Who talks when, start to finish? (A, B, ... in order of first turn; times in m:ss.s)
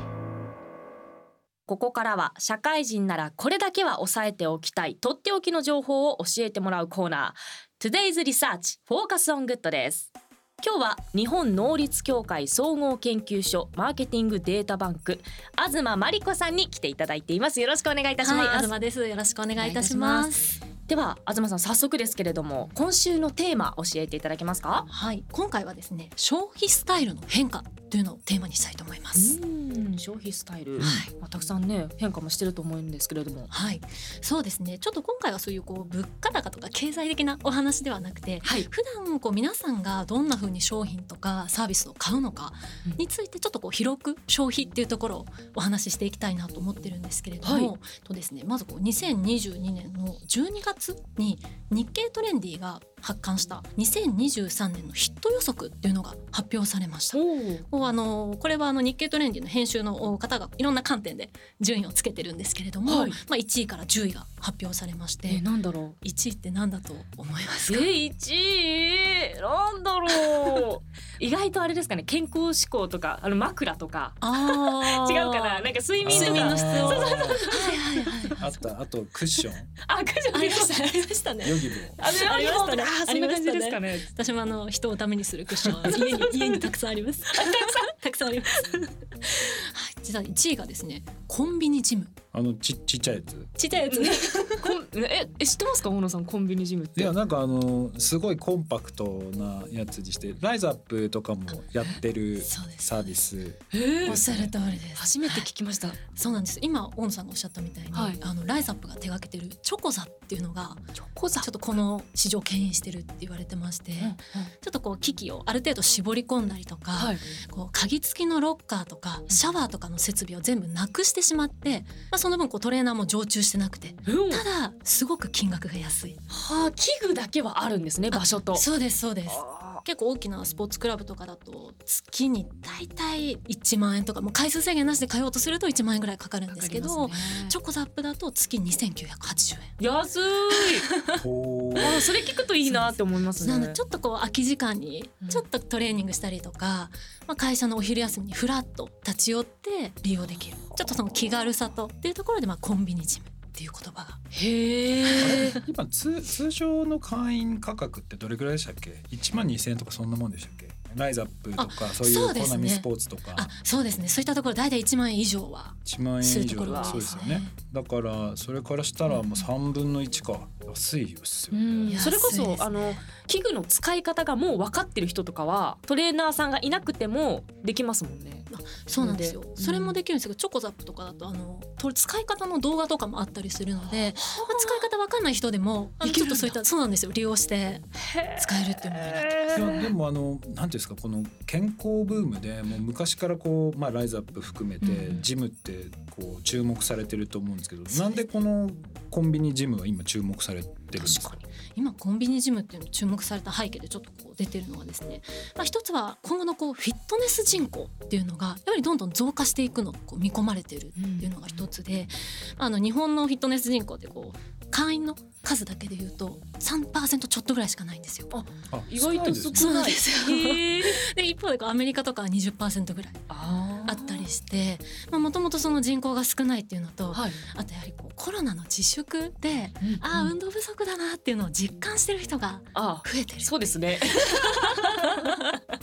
0:01.7-0:18.7 A
0:18.2-0:20.6 B
0:19.6-0:24.9 A
0:24.9-0:29.4 B
0:29.1-0:33.5 A
0:30.8-0:31.1 B
0:30.8-0:31.0 C
0:33.5-1:05.4 B
0:38.4-0:38.7 A
0:47.4-0:47.7 A
0:57.1-0:57.6 A
1:02.8-1:03.2 A
1:05.3-1:06.0 A
1:06.0-1:07.9 B
1:07.7-1:18.3 A
1:10.2-1:10.6 B
1:14.2-1:18.6 B
1:16.0-1:17.4 C
1:18.4-1:19.7 C
1:19.8-1:21.1 A
1:20.3-1:32.1 B
1:21.4-1:22.0 C
1:22.0-1:24.1 A
1:25.8-1:26.7 A
1:27.3-1:27.9 A
1:28.5-1:28.9 A
1:32.3-1:33.5 C
1:33.6-1:34.8 B
1:33.8-1:37.2 A
1:37.0-1:44.5 C
1:42.4-1:43.2 B
1:43.7-1:44.2 A
1:44.0-1:45.5 B
1:44.9-1:46.0 A
1:46.1-1:50.8 B
1:47.9-1:48.2 A
1:51.0-1:51.5 A
1:51.4-2:06.2 B
1:54.0-1:54.5 A
1:56.9-1:57.2 A
2:04.0-2:04.4 A
2:06.3-2:08.6 A
2:08.1-2:19.7 B
2:09.3-2:09.8 A
2:16.5-2:17.6 A
2:19.8-2:20.9 A
2:20.7-2:21.2 B
2:21.1-2:22.0 C
2:21.8-2:23.8 A
2:22.6-2:34.2 B
2:34.3-2:35.6 A
2:35.0-2:35.6 B
2:35.1-2:43.5 C
2:41.6-2:47.5 B
2:45.8-2:52.1 C
2:46.7-2:47.0 A
2:51.5-3:00.0 A
2:51.9-2:53.1 B
2:58.5-3:09.8 B
3:03.9-3:04.9 A
3:06.0-3:06.6 A
3:07.9-3:09.9 A
3:09.5-3:21.4 C
3:14.8-3:15.3 A
3:17.9-3:18.3 B
3:21.0-3:38.3 B
3:30.9-3:31.6 A
3:38.3-3:41.0 A
3:38.7-3:39.7 C
3:39.6-3:43.3 B
3:43.3-3:44.3 A
3:43.8-3:55.5 B
3:47.1-3:47.4 A
3:49.8-3:50.3 A
3:52.7-3:55.6 A